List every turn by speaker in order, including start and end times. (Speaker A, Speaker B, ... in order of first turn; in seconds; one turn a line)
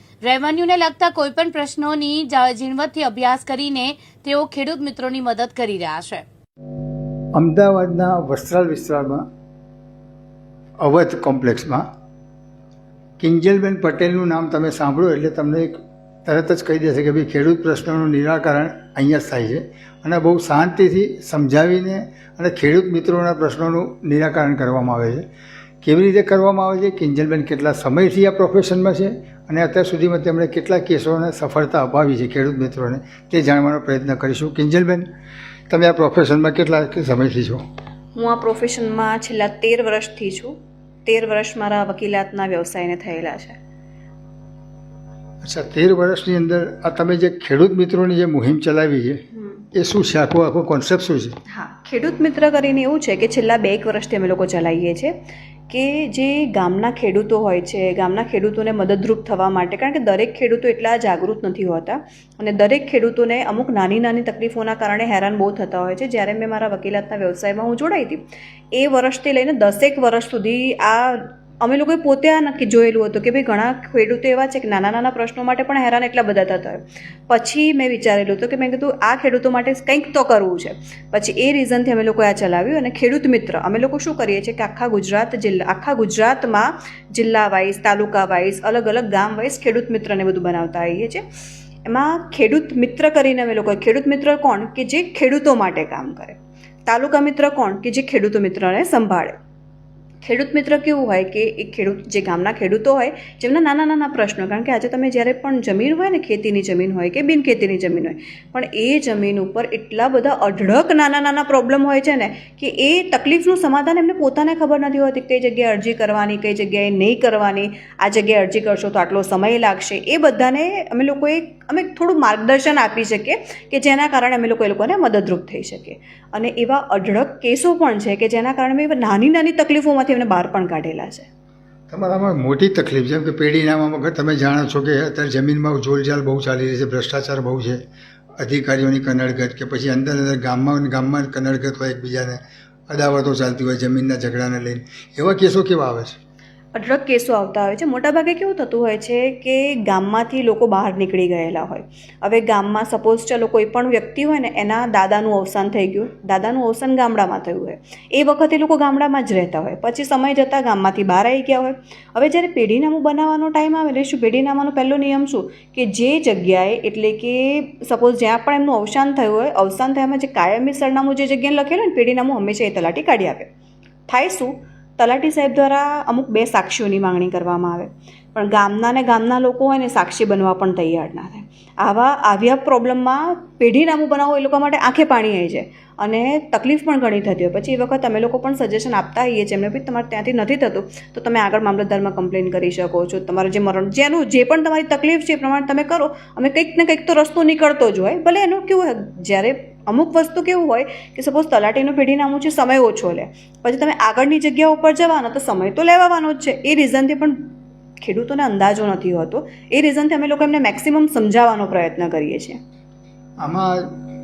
Speaker A: 0.2-6.2
Speaker B: 7.3-9.3
Speaker B: 10.8-11.9
Speaker B: 13.2-25.2
Speaker B: 25.8-35.1
Speaker B: 35.7-37.6
Speaker C: 38.2-40.5
Speaker C: 41.1-43.6
Speaker B: 45.4-49.2
Speaker C: 49.4-49.6
Speaker B: 49.8-51.4
Speaker C: 51.5-55.1
Speaker C: 55.7-68.2
Speaker C: 68.8-91.2
Speaker C: 91.9-99.3
Speaker C: 100.2-131.3
Speaker B: 131.9-137.8
Speaker B: 138.4-146.2
Speaker C: 146.7-173.5
Speaker C: 174.1-212.6
Speaker B: 213.4-214.1